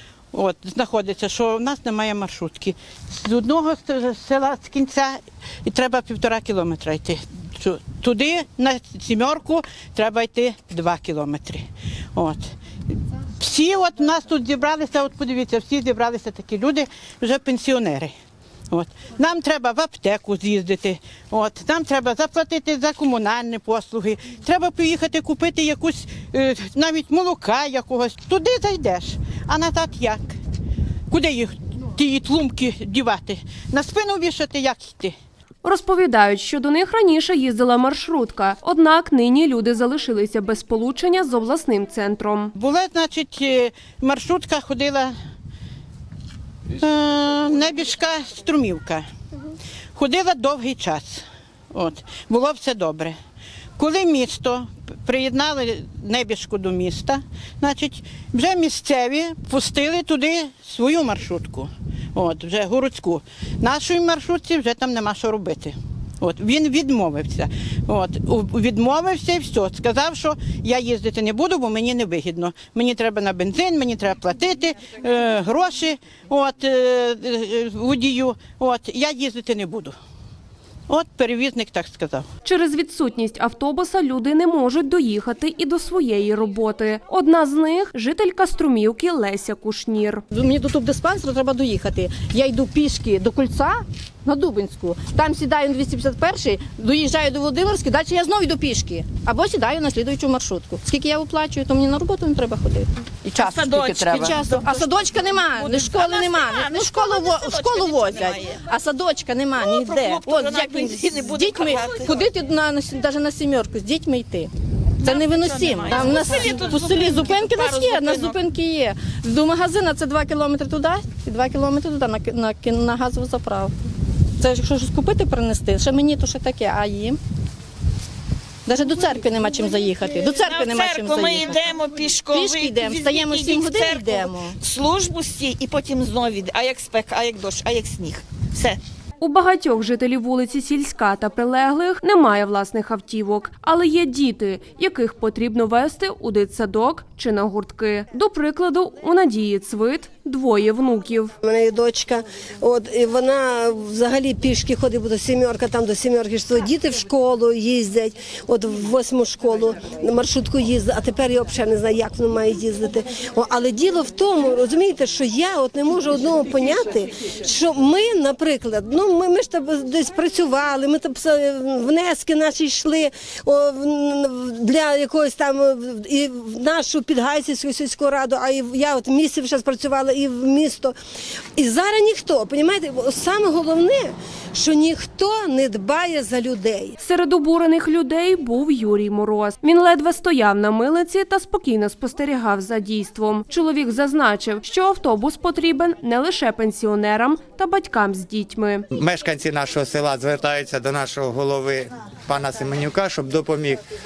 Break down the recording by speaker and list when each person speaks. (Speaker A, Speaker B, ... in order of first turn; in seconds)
Speaker A: 0.3-18.1, 18.7-30.4, 31.1-35.1, 42.5-45.1, 46.8-49.1, 49.9-53.2, 53.8-80.0, 80.9-82.3, 103.3-104.1
Speaker B: 35.6-42.5, 82.4-90.2, 139.2-151.3, 187.0-198.8
Speaker C: 90.3-123.8, 124.4-127.2, 128.7-134.6
Speaker D: 103.3-108.7, 109.5-112.3, 115.0-118.5, 128.9-138.8
Speaker E: 151.4-180.9, 181.6-187.0
Speaker F: 198.9-203.8